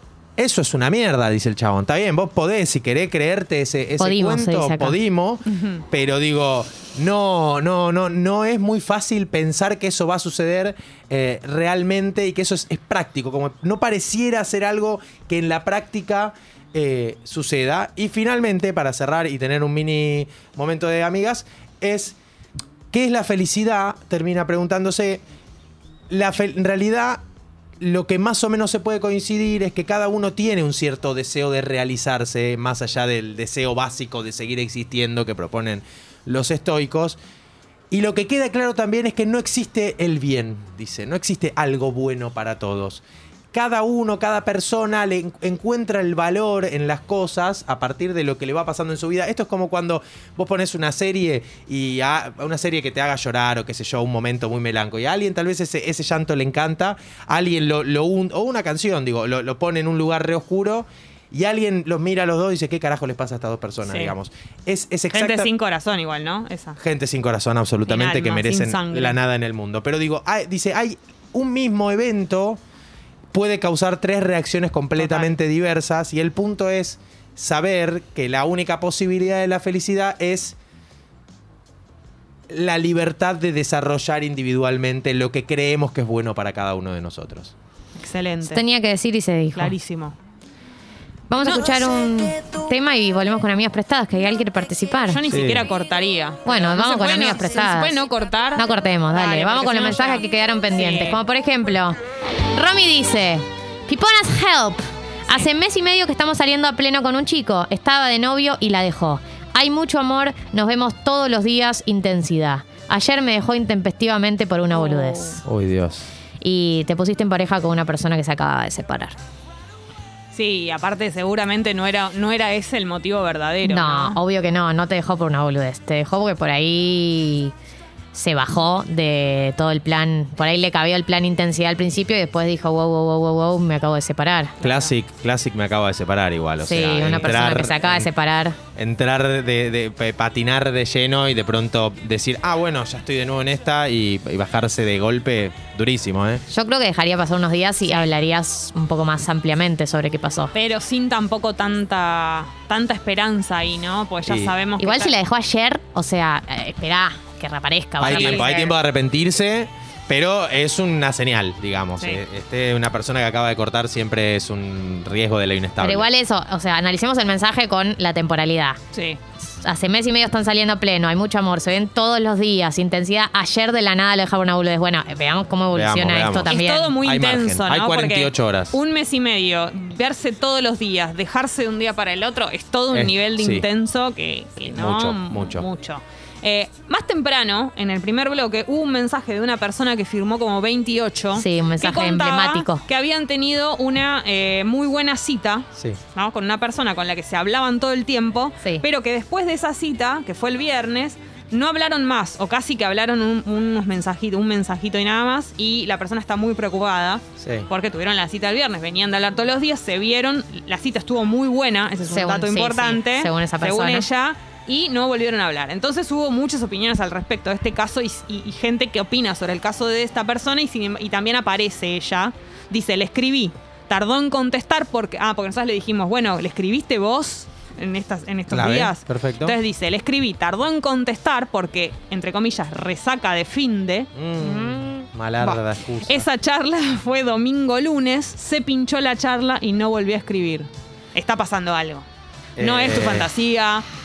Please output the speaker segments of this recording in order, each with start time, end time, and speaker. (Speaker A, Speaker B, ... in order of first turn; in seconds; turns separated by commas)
Speaker A: 0.4-22.2, Speaker B: 4.0-5.0, Speaker C: 5.5-5.8, Speaker A: 22.9-25.2, Speaker A: 26.1-27.2, Speaker A: 27.8-37.2, Speaker A: 37.9-43.0, Speaker A: 43.5-65.5, Speaker C: 63.9-64.1, Speaker C: 65.1-66.8, Speaker A: 66.8-72.6, Speaker C: 67.8-69.2, Speaker A: 73.3-80.5, Speaker C: 75.0-75.3, Speaker A: 82.5-87.5, Speaker C: 88.0-88.6, Speaker B: 88.4-89.7, Speaker C: 89.5-90.2, Speaker B: 91.3-95.2, Speaker C: 91.4-91.7, Speaker C: 95.1-101.2, Speaker A: 95.3-95.7, Speaker B: 96.5-98.0, Speaker B: 98.6-115.4, Speaker C: 114.8-115.4, Speaker A: 115.5-116.1, Speaker B: 116.4-119.2, Speaker C: 120.3-124.2, Speaker B: 123.6-127.5, Speaker B: 128.1-134.6, Speaker C: 134.6-134.9, Speaker A: 134.6-138.1, Speaker B: 136.6-138.6, Speaker A: 138.8-146.4, Speaker B: 146.5-150.5, Speaker C: 150.5-155.2, Speaker A: 154.3-154.5, Speaker B: 154.8-158.8, Speaker A: 158.0-166.1, Speaker C: 158.1-158.5, Speaker B: 165.8-168.8, Speaker C: 168.9-169.2, Speaker B: 169.6-176.9, Speaker A: 175.7-178.8, Speaker C: 176.5-234.8, Speaker A: 182.9-183.7, Speaker A: 184.7-185.7, Speaker B: 191.4-192.8, Speaker A: 207.4-207.7, Speaker B: 212.1-214.1, Speaker A: 228.5-229.6, Speaker A: 234.2-236.2, Speaker C: 235.4-242.1, Speaker A: 242.6-243.3, Speaker C: 242.6-243.8